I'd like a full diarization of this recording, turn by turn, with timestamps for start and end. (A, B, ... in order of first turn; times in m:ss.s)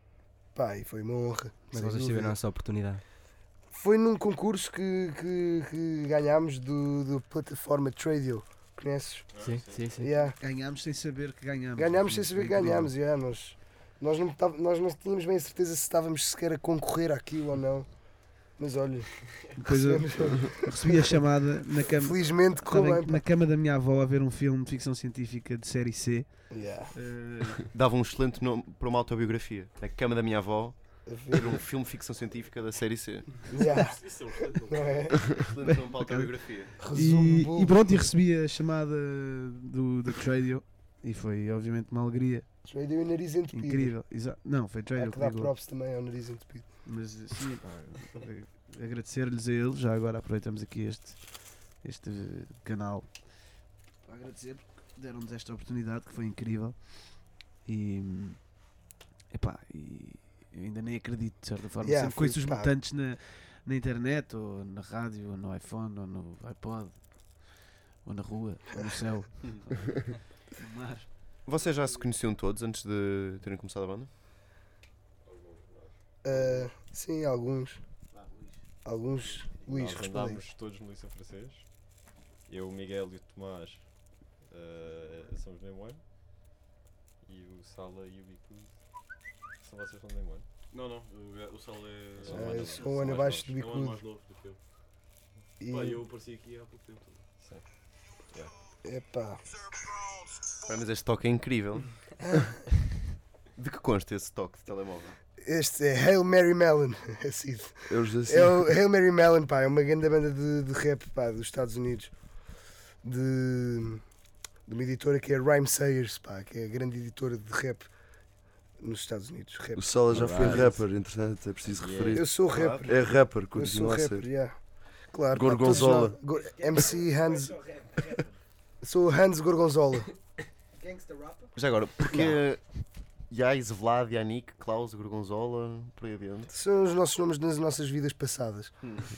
0:00.5-0:02.4 A
0:01.7-0:03.0 B
0:03.7-0:09.3 A
0:09.3-0:09.9 C
0:09.4-0:10.1 B
0:09.9-0:10.4 A
0:10.4-0:12.9 D
0:11.8-0:17.9 A
0:18.6-0:19.1 A
0:19.6-0:27.6 D
0:19.6-0:21.2 A
0:21.9-0:23.2 A
0:26.5-0:26.9 A
0:27.7-0:33.4 E
0:31.0-0:31.6 A
0:33.5-0:35.2 C
0:33.5-0:34.0 A
0:34.7-0:35.2 A
0:35.3-0:36.7 E
0:35.6-0:42.5 D
0:36.8-0:37.9 A
0:42.6-0:43.9 A
0:43.5-0:45.5 D
0:44.9-0:46.7 A
0:46.8-0:53.1 D
0:47.6-0:48.0 F
0:54.0-0:58.5 D
0:59.3-1:11.1 D
1:01.8-1:02.7 A
1:11.4-1:14.1 E
1:15.2-1:16.5 C
1:16.2-1:17.8 A
1:18.2-1:18.6 D
1:18.8-1:20.4 A
1:19.7-1:21.6 F
1:22.5-1:26.0 F
1:27.2-1:28.7 F
1:29.6-1:30.4 F
1:30.7-1:34.6 C
1:32.2-1:33.5 F
1:32.3-1:34.0 A
1:35.6-1:36.0 A
1:35.6-1:37.2 C
1:38.8-1:39.4 A
1:40.6-1:42.0 E
1:42.3-1:42.5 A
1:43.6-1:45.2 E
1:45.4-1:52.1 A
1:47.9-1:48.7 G
1:53.0-1:54.0 A
1:54.6-1:57.9 A
1:58.8-2:00.6 A
1:59.7-2:04.3 G
2:00.1-2:00.8 F
2:01.7-2:02.3 F
2:02.1-2:02.9 A
2:02.5-2:02.8 E
2:03.5-2:04.6 A
2:05.1-2:07.6 A
2:05.3-2:06.2 G
2:06.3-2:08.4 D
2:08.8-2:10.1 A
2:10.8-2:11.5 D
2:11.5-2:12.6 E
2:12.1-2:12.4 A
2:13.3-2:16.5 E
2:16.5-2:18.7 A